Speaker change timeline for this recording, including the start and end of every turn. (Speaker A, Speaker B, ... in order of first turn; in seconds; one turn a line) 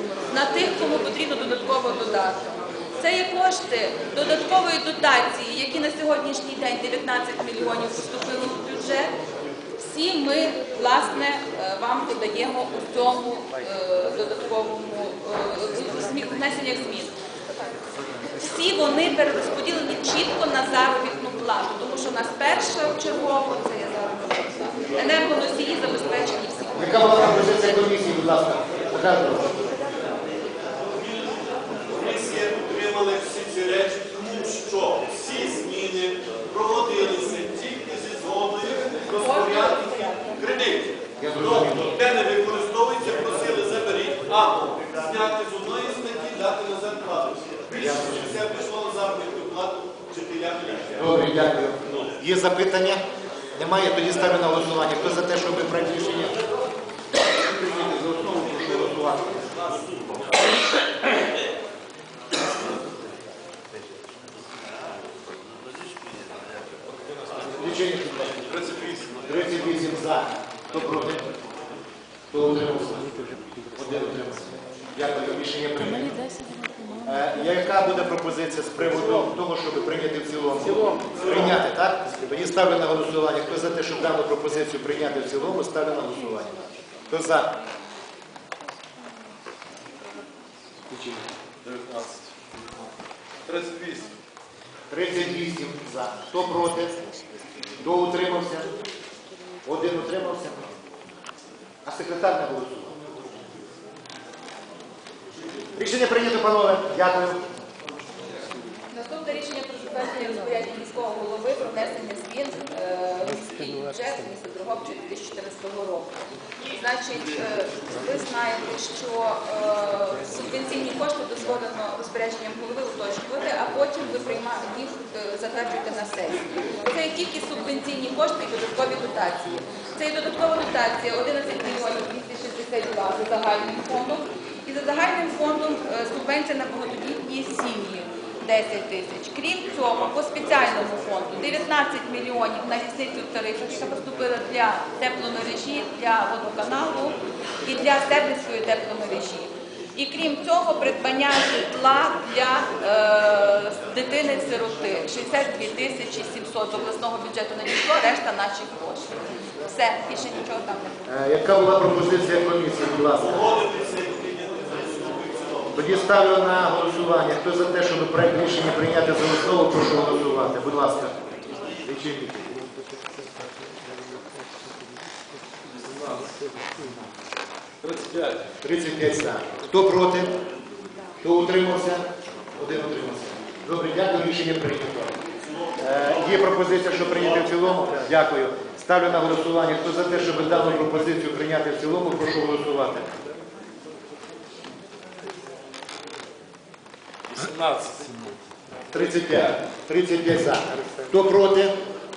Speaker A: 0.3-2.4
Speaker A: 3.0-9.2
Speaker A: 9.8-17.1
Speaker A: 18.4-27.0
Speaker B: 26.8-29.5
Speaker C: 31.0-51.0
Speaker A: 39.2-40.4
Speaker B: 41.2-41.9
Speaker B: 47.8-48.4
Speaker B: 51.0-53.0
Speaker B: 53.5-56.4
Speaker B: 57.4-59.4
Speaker C: 58.6-59.9
Speaker C: 67.0-67.6
Speaker B: 67.6-68.4
Speaker C: 68.5-69.2
Speaker B: 69.2-71.2
Speaker B: 72.3-73.1
Speaker B: 73.7-76.2
Speaker B: 77.0-87.5
Speaker C: 81.2-81.5
Speaker B: 90.9-91.2
Speaker C: 91.6-92.2
Speaker C: 93.5-94.1
Speaker B: 94.9-97.0
Speaker B: 97.8-98.7
Speaker B: 99.7-100.6
Speaker B: 101.8-102.9
Speaker B: 105.8-107.4
Speaker A: 108.9-116.1
Speaker A: 116.7-161.0
Speaker B: 161.1-163.4
Speaker C: 163.2-165.9
Speaker B: 165.8-171.2
Speaker B: 171.8-172.6
Speaker C: 177.8-178.5
Speaker B: 178.6-180.3
Speaker B: 181.2-182.1
Speaker B: 182.6-185.2
Speaker C: 185.5-187.9
Speaker B: 185.8-193.1
Speaker C: 197.4-198.0
Speaker B: 198.9-201.8